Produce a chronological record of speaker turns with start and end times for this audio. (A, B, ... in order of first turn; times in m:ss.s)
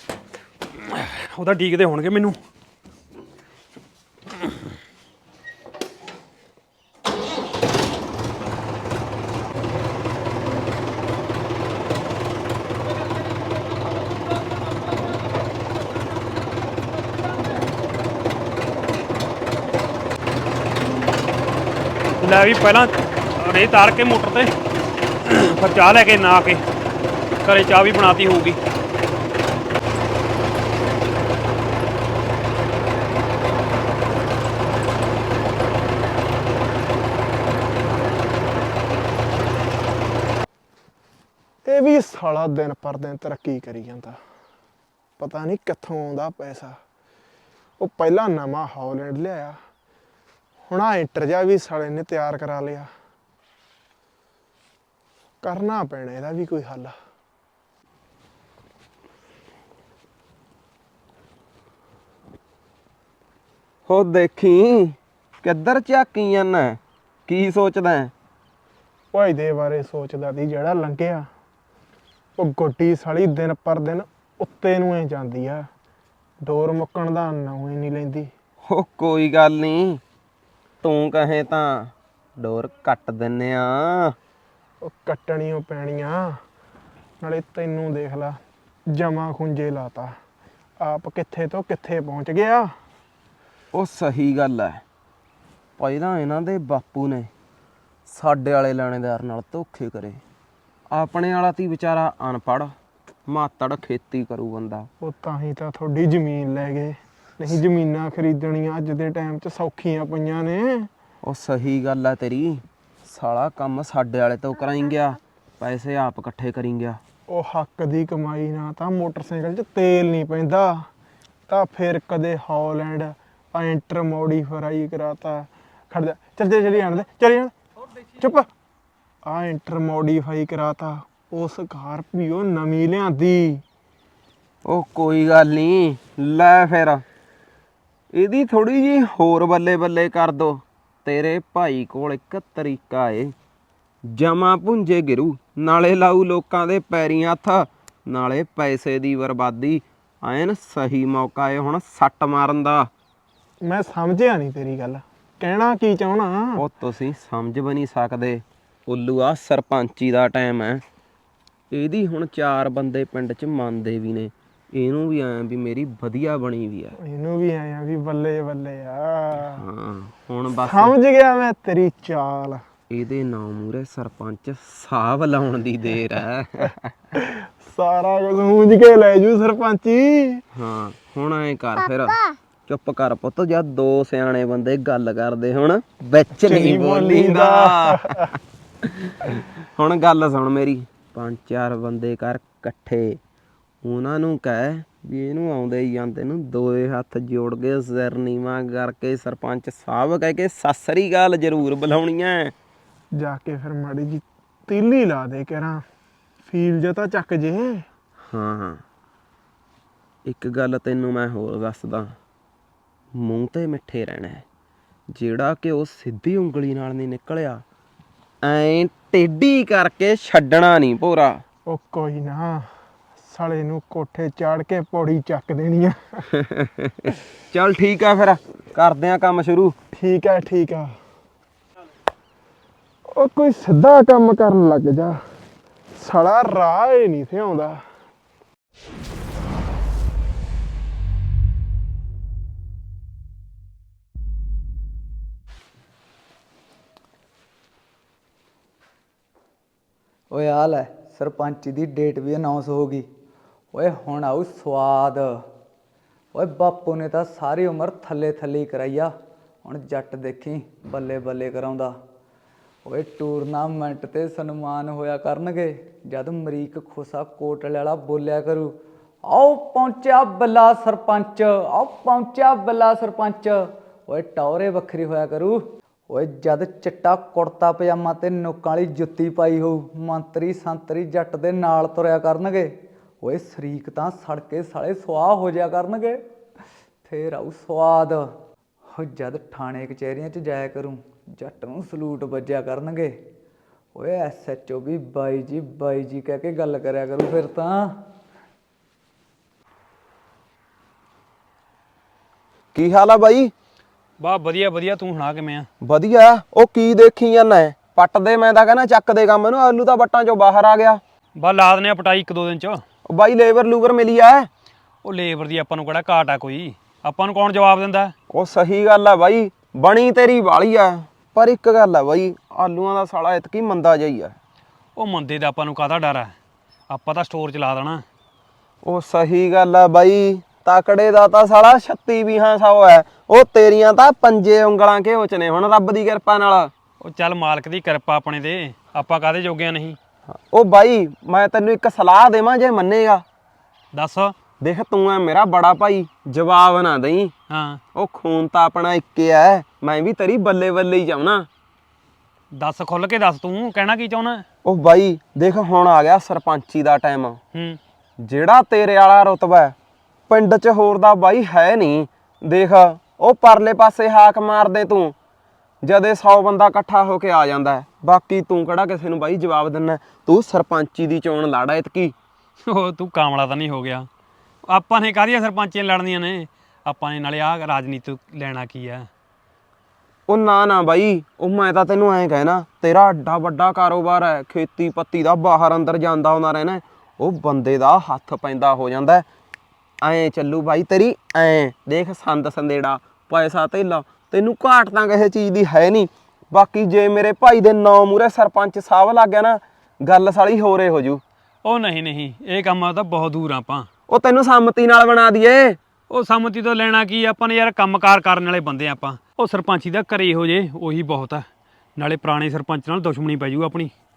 0:00.8-0:02.4 A
0:22.2-0:24.5 A
0:25.2-0:26.6 A
0:27.4-0:28.6 A
0:41.6-0:44.2 B
0:45.2-0:46.8 B
0:47.8-0:49.6 B
0:50.7-0:52.9 B
0:55.4-0:56.9 B
1:03.9-1:08.1 C
1:09.1-1:11.3 B
1:12.4-1:15.6 B
1:16.4-1:18.3 B
1:18.7-1:20.0 C
1:20.8-1:24.1 C
1:24.8-1:26.3 B
1:27.2-1:28.4 B
1:28.9-1:30.1 B
1:30.8-1:32.7 B
1:33.7-1:34.8 C
1:35.8-1:37.3 C
1:38.1-1:40.2 C
1:40.9-1:42.7 C
1:43.3-1:44.9 C
1:45.0-1:50.9 B
1:51.2-1:57.0 C
1:57.3-2:00.8 B
2:01.5-2:07.5 B
2:08.2-2:08.5 B
2:09.2-2:13.6 B
2:14.6-2:17.0 C
2:18.1-2:23.3 C
2:24.1-2:32.9 C
2:33.6-2:36.6 B
2:36.6-2:40.8 C
2:41.7-2:46.9 C
2:47.0-2:49.6 B
2:49.4-2:50.9 C
2:50.5-2:52.6 B
2:52.9-2:56.7 C
2:57.2-3:00.4 B
3:00.5-3:08.3 C
3:06.4-3:08.0 B
3:08.8-3:13.2 C
3:13.8-3:22.5 C
3:23.2-3:25.8 B
3:26.5-3:27.8 B
3:28.3-3:28.8 C
3:30.2-3:32.1 C
3:33.2-3:34.4 C
3:35.1-3:37.6 C
3:38.4-3:41.4 C
3:41.7-3:42.6 B
3:43.3-3:46.2 B
3:46.5-3:49.7 C
3:49.9-3:50.9 B
3:53.1-3:55.2 B
3:56.0-3:57.8 B
4:10.3-4:13.1 D
4:13.7-4:15.4 D
4:16.3-4:19.1 D
4:19.6-4:21.9 D
4:22.8-4:46.2 D
4:47.0-4:48.3 D
4:48.9-4:53.2 D
4:53.9-4:58.0 D
5:02.7-5:03.5 C
5:04.2-5:05.7 A
5:05.8-5:11.0 C
5:11.4-5:12.8 A
5:13.0-5:14.5 C
5:15.0-5:18.1 A
5:18.3-5:24.3 C
5:25.0-5:26.3 A
5:26.9-5:28.0 A
5:28.8-5:36.7 C
5:37.0-5:40.0 A
5:40.3-5:43.2 C
5:43.9-5:44.3 A
5:44.6-5:47.3 C
5:47.5-5:47.8 A
5:47.9-5:51.5 C
5:52.5-5:54.4 A
5:54.6-5:57.4 C
5:57.5-5:57.8 A
5:58.2-5:59.7 C
6:00.3-6:05.1 C
6:05.8-6:12.1 C
6:12.6-6:14.1 A
6:14.7-6:19.1 A
6:20.3-6:29.2 C
6:30.0-6:41.2 C
6:41.6-6:43.9 A
6:44.1-6:45.8 C
6:46.1-6:51.4 A
6:52.0-6:53.9 A